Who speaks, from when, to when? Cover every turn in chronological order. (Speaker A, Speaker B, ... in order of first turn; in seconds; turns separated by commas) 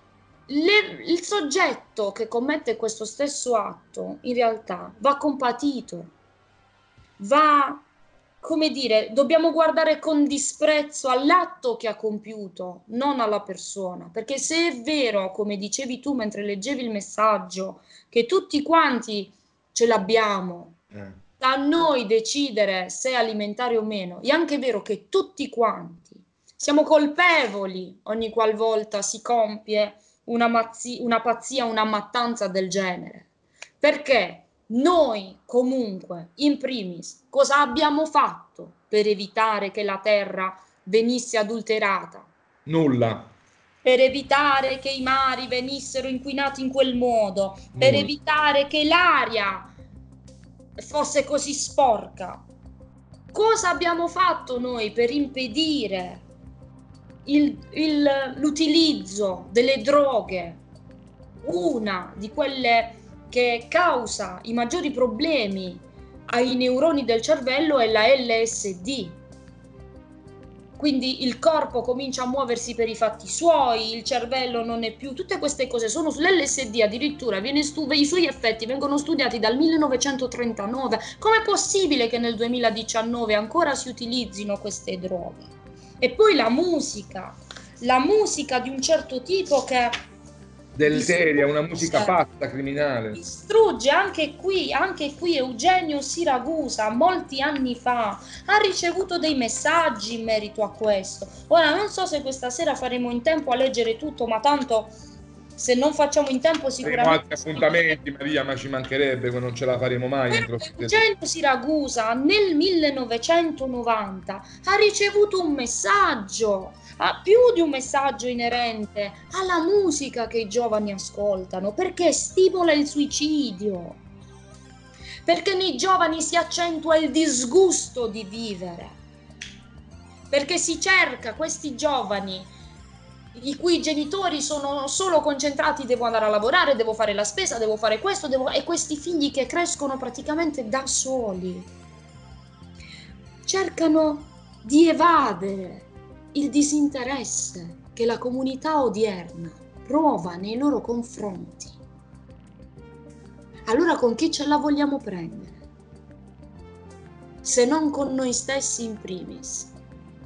Speaker A: 0.5-6.1, Speaker A: 7.2-7.8, Speaker A: 8.4-20.8, Speaker A: 21.4-33.3, Speaker A: 33.8-42.3, Speaker B: 42.7-43.3, Speaker A: 43.8-49.7, Speaker B: 47.8-48.1, Speaker A: 50.8-52.4, Speaker A: 53.3-56.2, Speaker A: 57.2-60.6, Speaker A: 61.4-69.2, Speaker A: 70.8-89.9, Speaker B: 90.8-93.2, Speaker A: 90.8-92.2, Speaker A: 93.1-104.9, Speaker A: 105.6-107.9, Speaker B: 106.8-111.1, Speaker A: 110.3-124.0, Speaker A: 125.3-129.0, Speaker A: 130.3-132.5, Speaker A: 133.3-141.7, Speaker A: 143.4-151.8, Speaker A: 153.7-155.6, Speaker A: 157.4-159.7